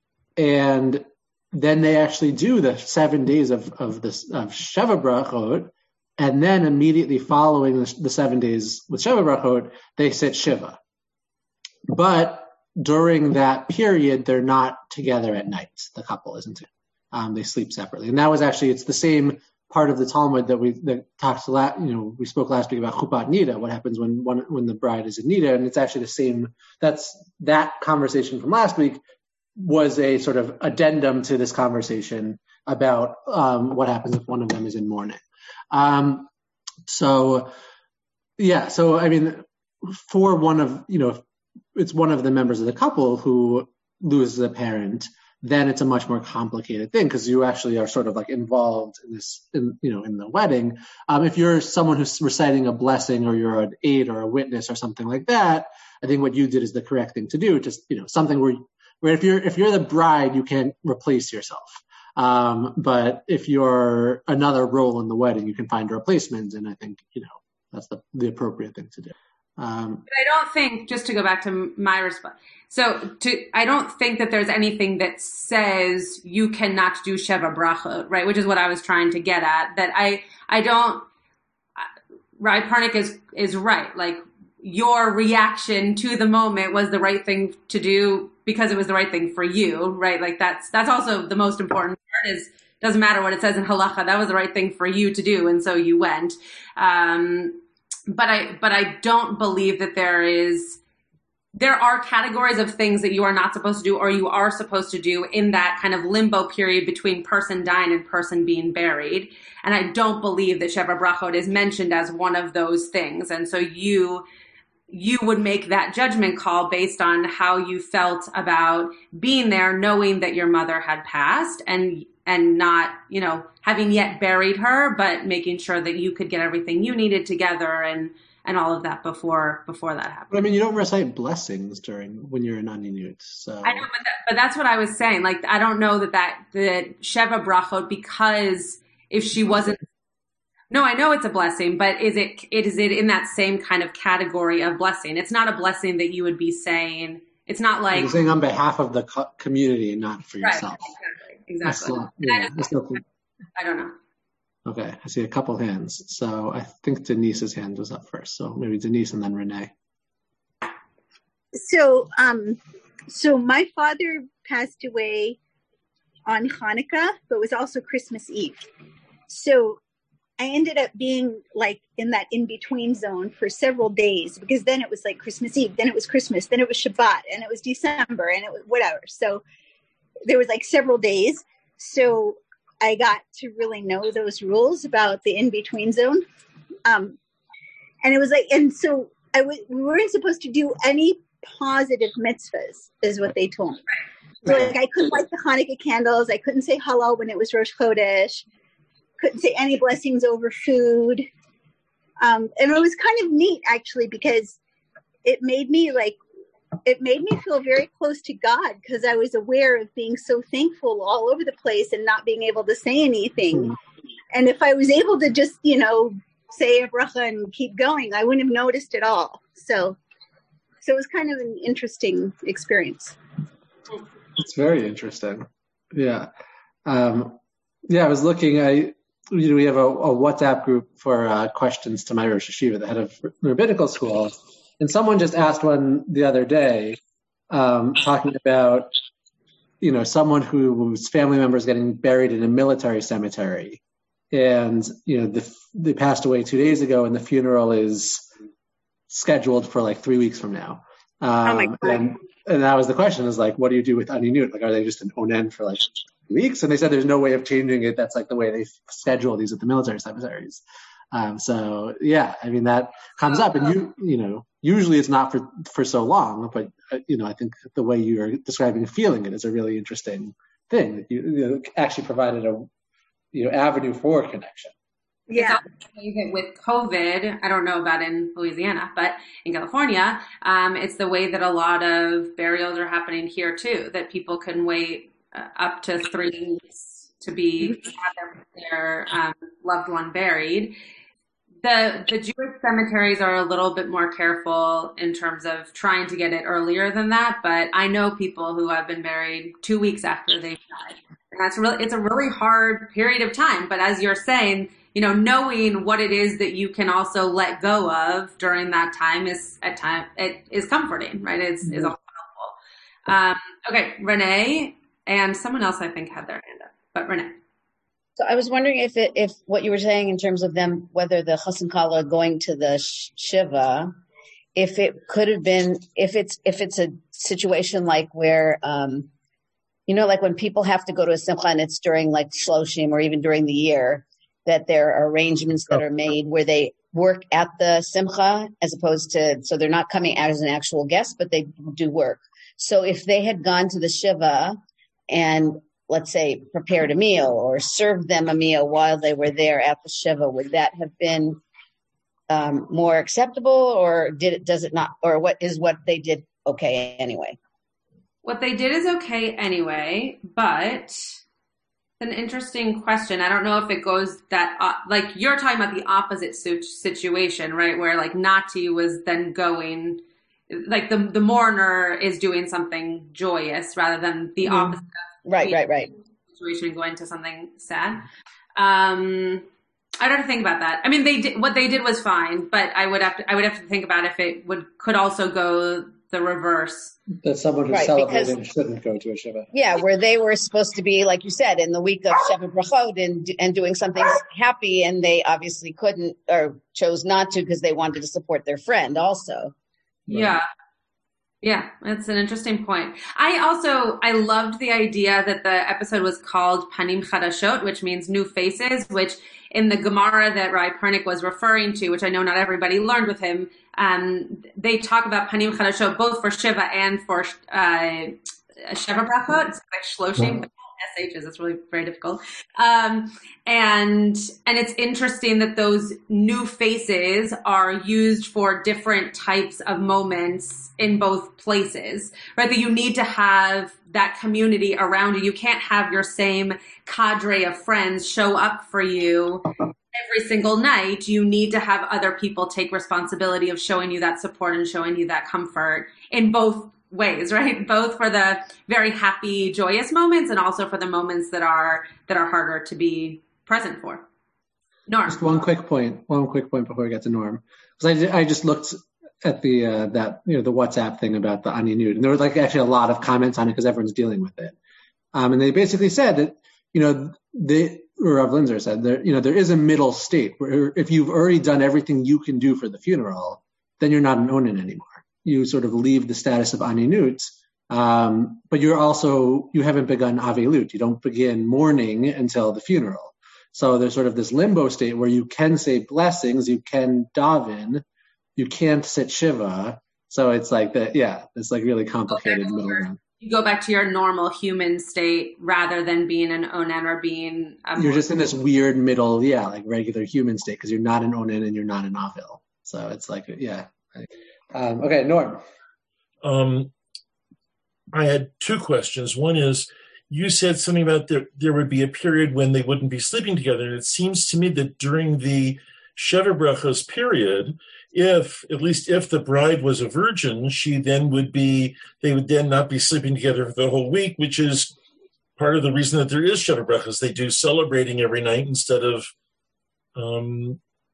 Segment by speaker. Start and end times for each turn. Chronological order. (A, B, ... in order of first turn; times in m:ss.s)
0:00.4-0:10.8 A
0:11.9-0:29.0 A
0:29.6-0:36.3 A
0:36.9-0:37.5 A
0:38.4-0:41.2 A
0:41.7-1:10.0 A
1:10.1-1:21.0 B
1:22.4-1:37.6 B
1:38.1-1:40.8 B
1:41.5-1:54.2 B
1:54.9-2:10.3 B
2:10.3-2:13.9 A
2:13.6-2:19.8 B
2:20.7-2:28.2 B
2:27.9-2:30.9 A
2:30.4-2:33.0 B
2:31.6-2:33.0 A
2:33.6-2:33.9 B
2:34.6-2:39.7 A
2:41.6-2:45.4 C
2:46.2-2:48.6 C
2:49.3-2:49.8 C
2:50.4-2:59.4 C
3:00.2-3:06.2 C
3:06.8-3:07.2 C
3:08.0-3:13.8 C
3:14.4-3:18.4 C
3:19.2-3:21.2 C
3:22.2-3:24.6 C
3:25.2-3:26.2 C
3:26.8-3:33.7 C
3:34.3-3:40.0 C
3:40.8-3:43.2 C
3:44.4-3:46.3 A
3:46.8-3:47.4 A
3:47.9-3:57.0 A
3:57.5-3:58.9 A
3:59.8-4:03.8 A
4:04.3-4:08.3 A
4:09.1-4:32.7 A
4:33.3-4:34.7 A
4:35.3-4:35.6 C
4:35.3-4:50.8 B
4:51.6-5:12.5 B
5:13.1-5:17.3 B
5:18.2-5:23.9 D
5:24.6-5:29.1 D
5:29.9-5:44.6 D
5:45.1-5:51.4 D
5:52.3-5:57.4 D
5:58.2-6:01.0 B
6:02.0-6:15.6 B
6:14.4-6:15.9 D
6:16.3-6:18.0 B
6:18.6-6:19.4 B
6:20.0-6:26.9 B
6:27.2-6:29.5 A
6:27.7-6:28.4 D
6:29.5-6:39.5 D
6:40.1-6:40.4 A
6:40.1-6:40.4 B
6:41.4-7:34.0 B
7:34.9-7:35.3 B
7:35.1-7:44.6 A
7:45.1-8:07.8 A
8:08.4-8:13.0 A
8:12.1-8:18.2 B
8:17.8-8:25.4 A
8:26.2-8:26.7 E
8:27.9-8:44.7 E
8:45.4-8:49.1 E
8:50.0-8:50.6 E